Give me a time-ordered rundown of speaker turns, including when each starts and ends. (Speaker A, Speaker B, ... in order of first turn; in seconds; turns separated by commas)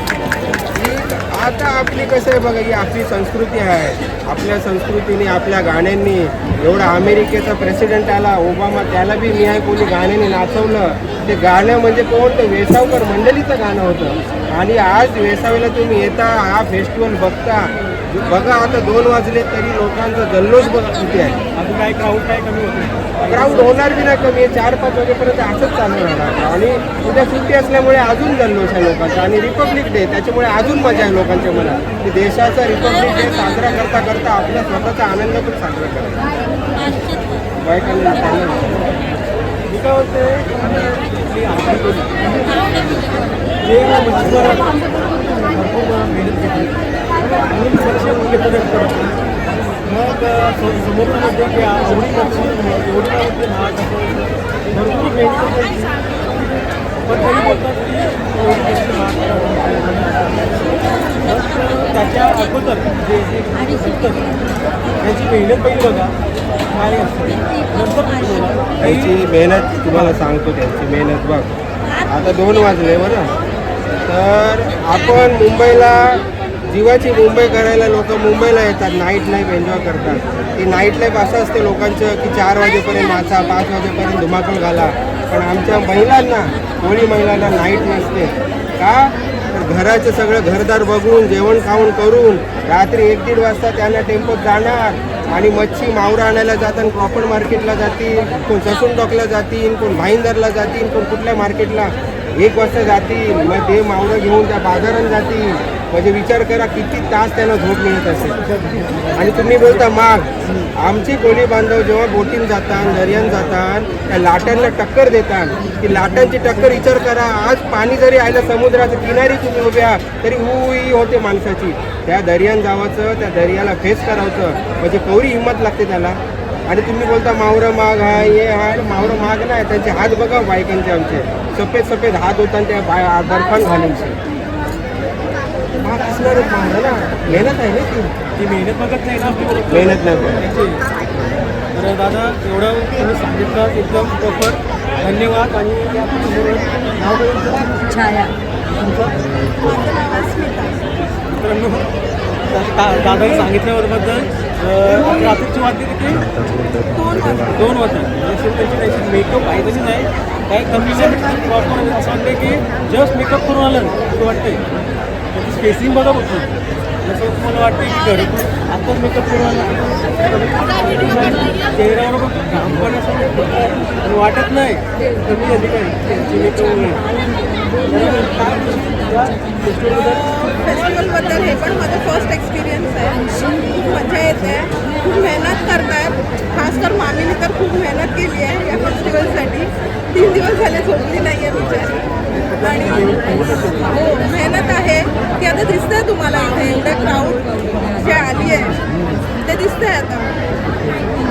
Speaker A: 0.8-21.4, Speaker B: 21.6-23.7, Speaker A: 23.3-36.2, Speaker A: 37.6-39.0, Speaker B: 39.7-42.6, Speaker B: 43.6-46.7, Speaker B: 47.5-49.1, Speaker B: 49.9-55.9, Speaker B: 57.1-60.6, Speaker B: 61.2-64.2, Speaker B: 65.0-66.1, Speaker B: 66.7-69.1, Speaker A: 68.8-71.5, Speaker B: 69.9-70.2, Speaker A: 72.1-73.3, Speaker A: 74.0-108.4, Speaker A: 109.2-134.2, Speaker A: 135.8-138.1, Speaker B: 138.4-140.8, Speaker A: 139.7-140.4, Speaker B: 141.7-147.7, Speaker C: 147.8-148.3, Speaker B: 148.7-149.1, Speaker C: 149.5-150.8, Speaker B: 151.3-151.8, Speaker B: 152.5-156.3, Speaker C: 156.9-157.4, Speaker B: 157.4-164.6, Speaker B: 165.3-166.5, Speaker B: 167.0-177.0, Speaker B: 177.8-180.4, Speaker D: 180.6-192.0, Speaker B: 192.4-194.0, Speaker D: 192.6-198.7, Speaker D: 199.4-200.3